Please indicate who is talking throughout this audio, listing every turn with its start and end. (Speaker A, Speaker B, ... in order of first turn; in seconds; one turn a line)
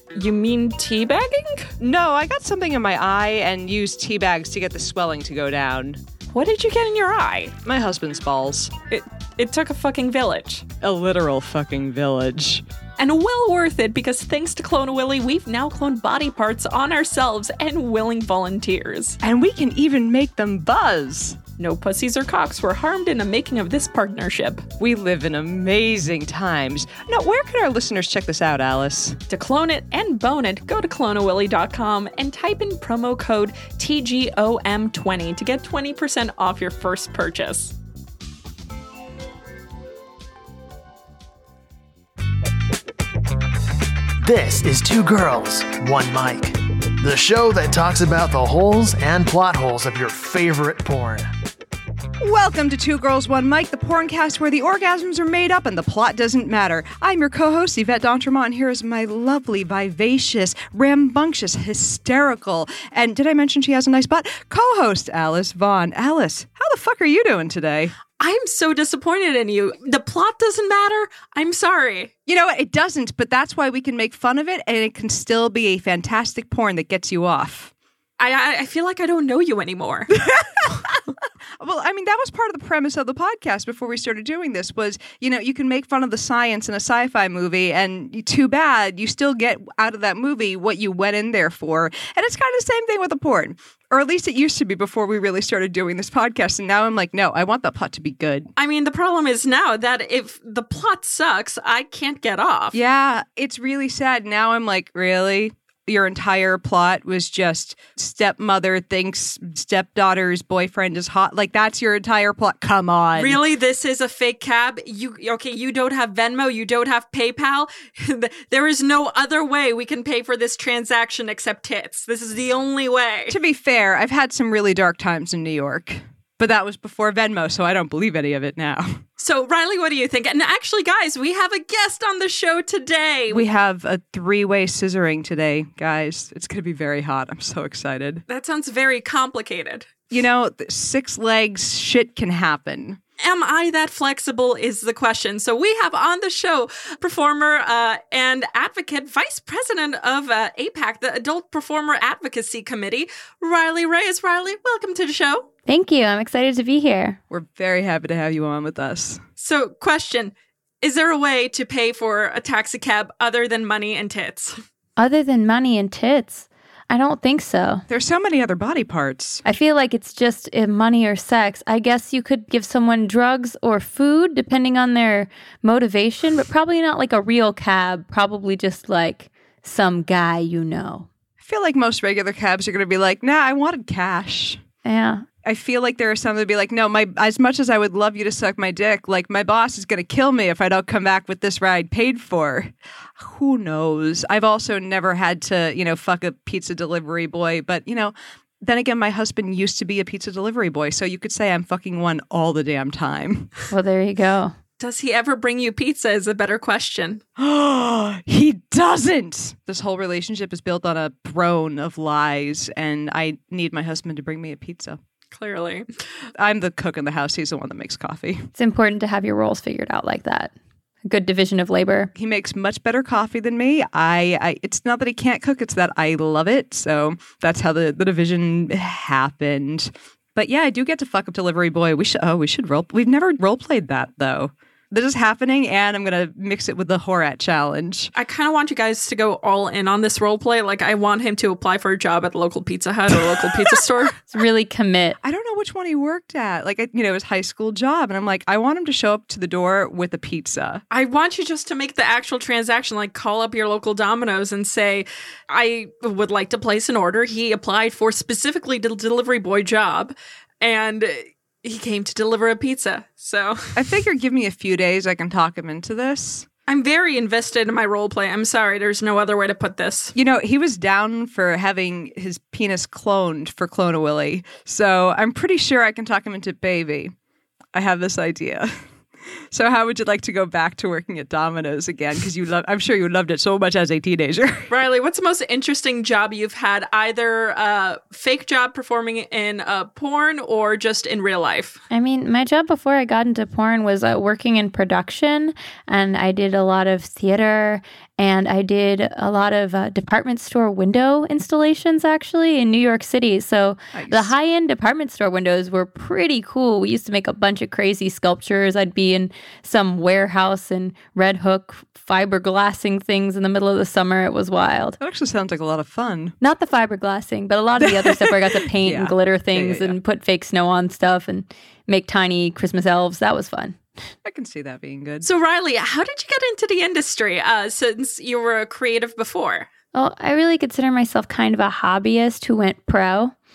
Speaker A: 0.1-1.7
Speaker B: 1.8-6.0
Speaker A: 6.3-7.6
Speaker B: 7.6-8.8
Speaker A: 8.9-10.7
Speaker B: 10.8-12.6
Speaker A: 13.0-19.2
Speaker B: 19.2-21.4
Speaker A: 21.6-24.7
Speaker B: 24.8-29.2
Speaker A: 29.3-37.7
Speaker C: 44.2-51.3
Speaker B: 52.2-67.9
Speaker A: 68.2-72.1
Speaker B: 72.3-77.7
Speaker A: 78.2-80.2
Speaker B: 80.1-81.0
Speaker B: 81.6-98.5
Speaker A: 98.5-102.8
Speaker B: 102.7-113.4
Speaker A: 113.1-123.4
Speaker B: 123.3-129.0
Speaker A: 129.2-133.4
Speaker B: 133.3-138.2
Speaker A: 138.3-139.9
Speaker B: 140.1-143.0
Speaker A: 143.2-155.5
Speaker D: 155.7-157.2
Speaker B: 157.3-159.2
Speaker A: 159.4-164.6
Speaker D: 165.0-167.8
Speaker B: 167.9-169.4
Speaker D: 169.4-181.1
Speaker B: 181.4-184.6
Speaker D: 184.8-185.2
Speaker B: 185.4-203.5
Speaker D: 203.7-204.5
Speaker A: 204.8-207.2
Speaker B: 207.4-215.0
Speaker A: 215.3-215.9
Speaker B: 216.3-218.5
Speaker D: 218.6-220.5
Speaker D: 221.0-222.1
Speaker B: 222.1-238.1
Speaker A: 238.2-244.2
Speaker D: 244.3-245.2
Speaker B: 245.2-250.8
Speaker A: 250.9-263.8
Speaker B: 263.7-266.5
Speaker A: 266.7-270.1
Speaker B: 270.1-277.1
Speaker B: 277.7-278.8
Speaker B: 279.5-284.7
Speaker A: 284.7-291.8
Speaker D: 291.9-315.0
Speaker B: 303.9-304.3
Speaker B: 315.0-316.3
Speaker D: 316.4-323.8
Speaker B: 317.8-320.0
Speaker B: 324.2-325.3
Speaker A: 325.2-329.7
Speaker D: 329.9-333.3